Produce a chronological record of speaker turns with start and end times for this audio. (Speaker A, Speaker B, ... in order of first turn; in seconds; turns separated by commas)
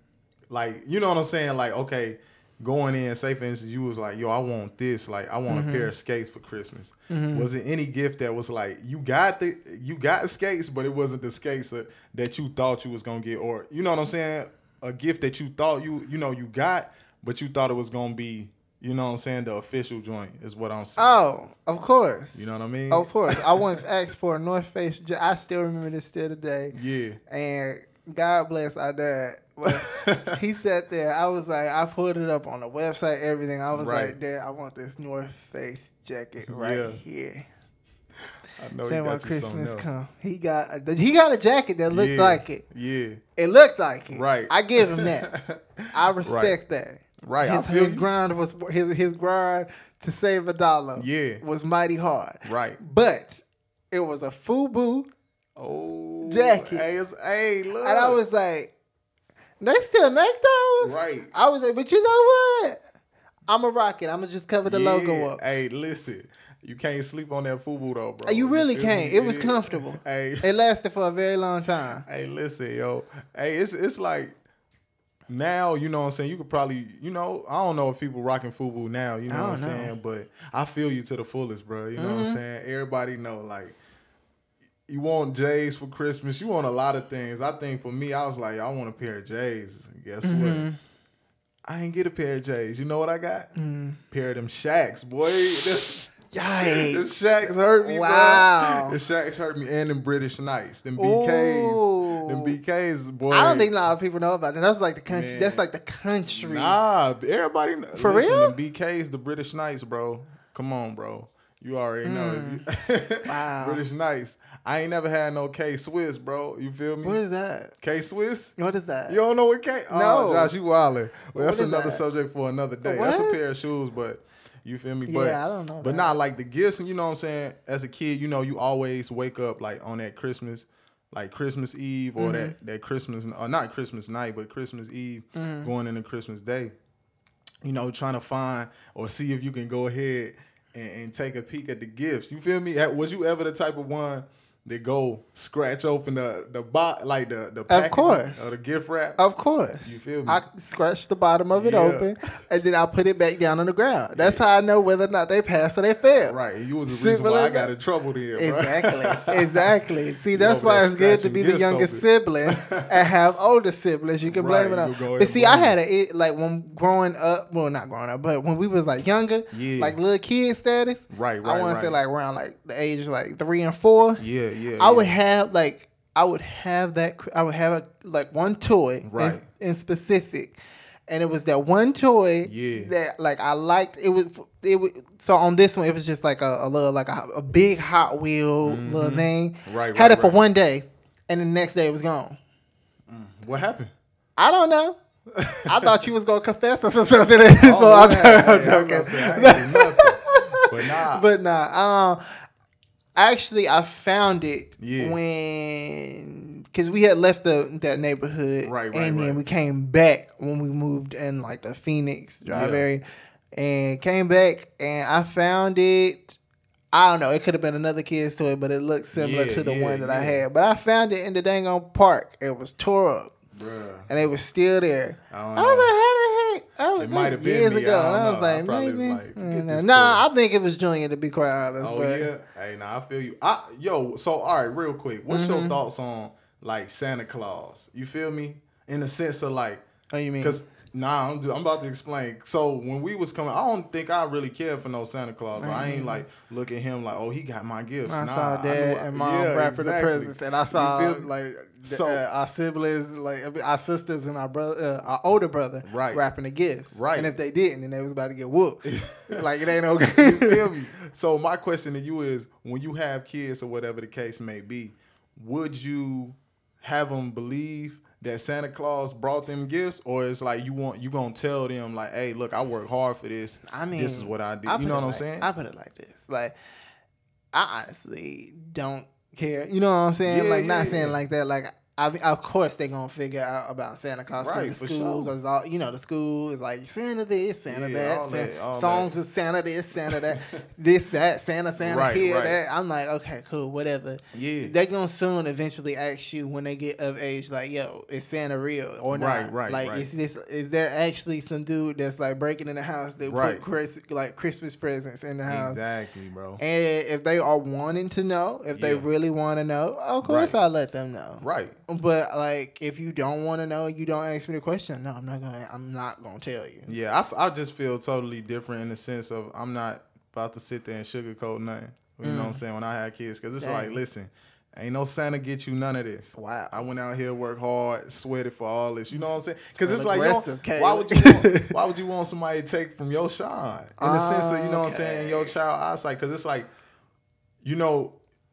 Speaker A: 0.5-21.2, Speaker B: 5.5-5.9, Speaker B: 7.1-7.5, Speaker B: 21.0-26.8, Speaker A: 22.4-23.8, Speaker A: 26.7-27.2, Speaker B: 27.3-37.5, Speaker A: 29.7-30.3, Speaker A: 33.7-34.2, Speaker A: 36.5-37.0, Speaker A: 38.6-39.9, Speaker B: 38.8-42.6, Speaker A: 41.9-43.2, Speaker B: 43.4-45.3, Speaker A: 44.1-46.6, Speaker B: 45.9-55.1, Speaker A: 47.2-48.1, Speaker A: 51.0-51.4, Speaker A: 52.4-52.8, Speaker A: 55.6-58.2, Speaker B: 56.2-56.9, Speaker B: 57.8-58.7, Speaker B: 59.6-62.8, Speaker A: 60.8-61.3, Speaker B: 63.5-65.4, Speaker A: 64.7-70.5, Speaker B: 68.2-72.1, Speaker A: 72.1-74.4, Speaker A: 75.3-83.8, Speaker B: 79.3-80.0, Speaker B: 82.0-82.4, Speaker A: 84.9-90.7, Speaker B: 90.2-90.8, Speaker A: 91.7-93.5, Speaker B: 93.5-94.0, Speaker A: 94.1-103.7, Speaker B: 96.3-99.0, Speaker B: 101.0-102.6, Speaker B: 103.3-106.8, Speaker A: 105.1-105.7, Speaker A: 106.3-117.2, Speaker B: 107.9-108.6, Speaker B: 112.0-112.6, Speaker B: 113.2-113.8, Speaker B: 117.0-117.8, Speaker A: 117.8-118.6, Speaker B: 118.6-119.2, Speaker A: 119.1-136.7, Speaker B: 119.9-120.5, Speaker B: 121.3-122.0, Speaker B: 122.8-123.4, Speaker B: 125.1-126.1, Speaker B: 132.2-132.6, Speaker B: 135.3-135.7, Speaker A: 137.6-149.2, Speaker B: 147.7-148.6, Speaker B: 149.2-157.7, Speaker A: 149.8-150.4, Speaker A: 151.5-152.1, Speaker A: 154.1-154.4, Speaker A: 156.2-159.8, Speaker B: 158.4-174.2, Speaker A: 160.3-162.9, Speaker A: 164.2-165.8, Speaker A: 169.5-170.0, Speaker A: 171.1-172.0, Speaker A: 174.2-175.1, Speaker B: 174.8-180.6, Speaker A: 179.0-179.4, Speaker B: 181.1-192.4, Speaker A: 182.4-182.9, Speaker A: 188.6-190.4, Speaker A: 193.1-193.9, Speaker B: 194.4-195.0, Speaker A: 195.3-196.0, Speaker B: 195.7-202.2, Speaker A: 197.6-201.2, Speaker B: 203.2-213.0, Speaker A: 204.8-205.2, Speaker A: 208.6-209.4, Speaker A: 212.5-212.9, Speaker B: 213.6-216.4, Speaker B: 216.9-223.3, Speaker A: 219.1-220.4, Speaker A: 223.6-224.1, Speaker B: 224.1-232.3, Speaker A: 225.3-225.9, Speaker A: 227.0-230.2, Speaker A: 231.7-239.8, Speaker B: 235.3-235.8, Speaker B: 240.1-240.6, Speaker A: 240.4-252.2, Speaker B: 245.6-246.2, Speaker B: 248.1-260.7, Speaker A: 255.8-256.2, Speaker A: 256.9-257.3, Speaker A: 258.9-259.4, Speaker A: 260.2-275.5, Speaker B: 273.7-276.6, Speaker B: 277.5-305.8, Speaker A: 280.2-281.2, Speaker A: 284.4-285.3, Speaker A: 287.7-289.1, Speaker A: 290.0-290.6, Speaker A: 291.8-292.6, Speaker A: 294.3-294.7, Speaker A: 299.1-300.1, Speaker A: 303.2-303.6, Speaker A: 305.5-306.6, Speaker B: 306.6-317.0, Speaker A: 308.7-309.1, Speaker A: 310.2-310.6, Speaker A: 311.4-311.8, Speaker A: 316.9-336.7, Speaker B: 322.2-322.6, Speaker B: 323.6-324.0, Speaker B: 326.3-326.9, Speaker B: 329.1-331.7, Speaker B: 334.0-335.6, Speaker A: 337.6-338.1